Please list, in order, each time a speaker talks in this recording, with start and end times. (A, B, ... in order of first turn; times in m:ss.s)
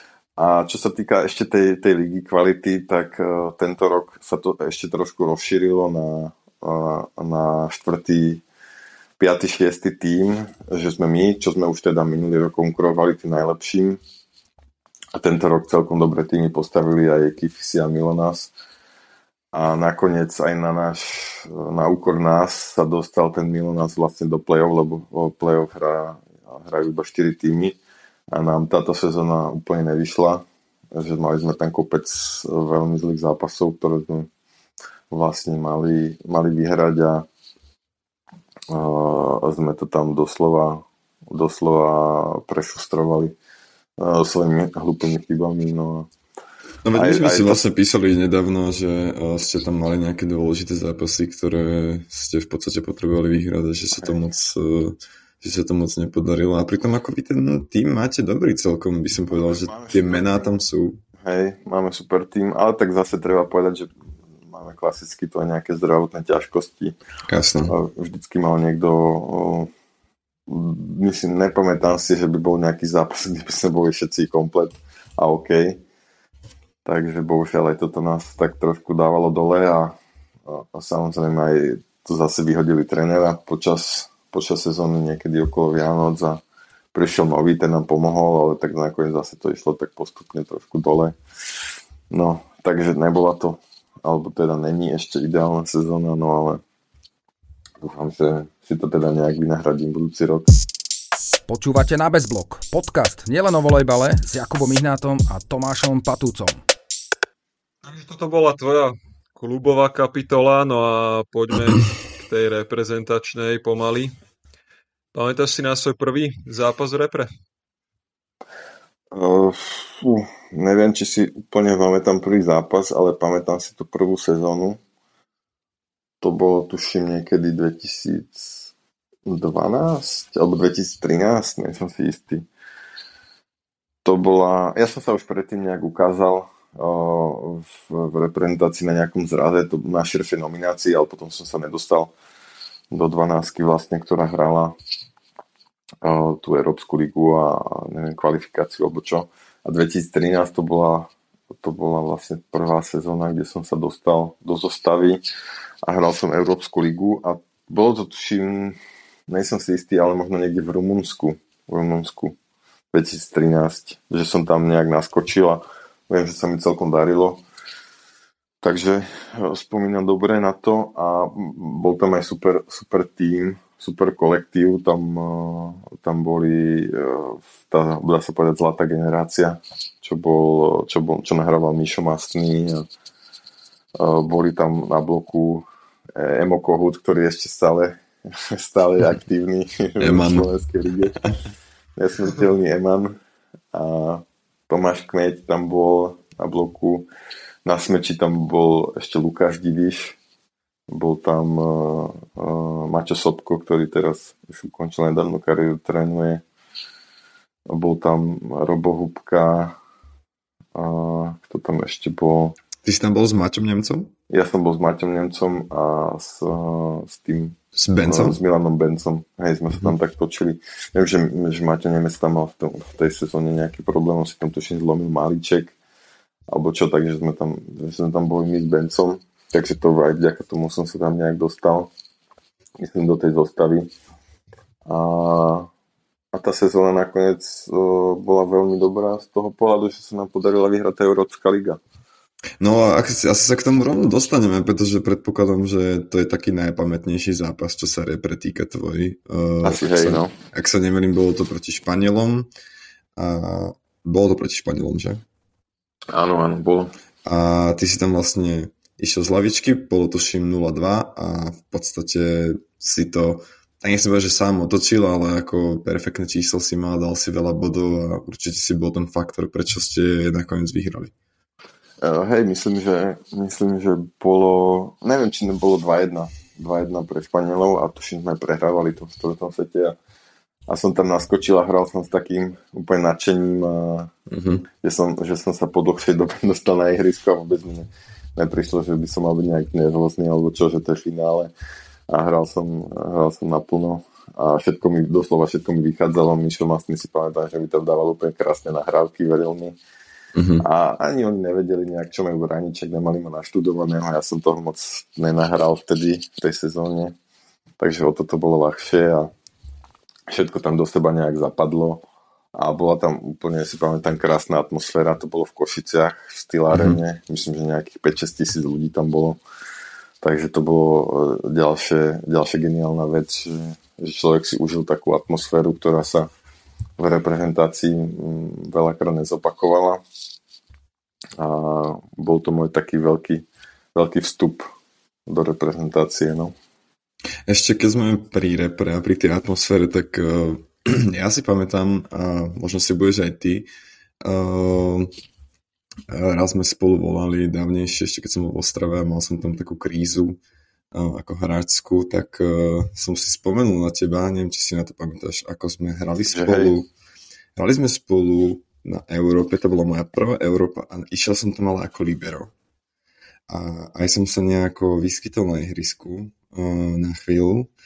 0:00.4-0:08.4 A
0:09.2-0:14.0 A
0:15.2-0:18.5 A
0:19.5-0:27.8 A
0:28.3-0:34.3 A
0:35.1-0:37.2 A
0:38.7-0:43.4 A
0:44.0-0:46.1 A
0:46.8-1:01.0 B
0:47.0-0:47.6 A
0:59.3-1:00.5 A
1:01.2-1:03.9 A
1:04.5-1:07.0 A
1:07.3-1:07.7 B
1:07.7-1:09.7 A
1:10.5-1:15.8 A
1:16.8-1:20.0 A
1:20.5-1:26.4 A
1:26.9-1:31.2 A
1:32.1-1:36.6 A
1:37.8-1:40.5 A
1:41.5-1:46.6 C
1:47.8-1:54.1 D
1:55.1-1:57.3 D
1:59.1-2:04.8 A
2:06.2-2:08.7 A
2:09.3-2:12.5 A
2:14.0-2:22.1 A
2:22.9-2:24.8 A
2:26.0-2:31.1 A
2:31.6-2:35.2 A
2:35.8-2:38.8 A
2:39.3-2:42.4 A
2:42.9-2:47.4 A
2:48.6-3:02.8 A
3:04.0-3:11.2 A
3:10.0-3:10.5 B
3:12.0-3:13.2 A
3:13.7-3:17.1 A
3:17.6-3:20.2 A
3:20.9-3:26.4 A
3:27.7-3:29.8 A
3:30.8-3:32.6 A
3:32.8-3:34.1 B
3:34.3-3:45.8 A
3:37.8-3:38.4 B
3:46.5-3:51.9 A
3:52.8-3:53.9 A
3:54.9-3:55.7 A
3:56.3-4:01.8 A
4:02.6-4:12.5 B
4:09.6-4:10.3 A
4:13.2-4:15.2 B
4:16.1-4:16.9 A
4:17.2-4:31.1 B
4:32.0-4:40.0 A
4:40.7-4:44.1 A
4:44.3-4:44.6 B
4:44.8-4:51.5 A
4:52.1-4:59.8 A
5:00.4-5:00.6 B
5:00.6-5:07.1 A
5:07.8-5:09.3 A
5:10.3-5:12.0 A
5:12.5-5:19.4 A
5:16.7-5:17.0 B
5:20.2-5:26.3 A
5:27.0-5:30.0 A
5:31.4-5:34.7 A
5:35.3-5:36.5 A
5:37.5-5:43.7 B
5:44.2-5:45.1 B
5:46.1-5:50.4 B
5:50.9-5:56.9 B
5:56.3-5:56.8 A
5:57.6-6:02.5 B
6:03.5-6:07.7 B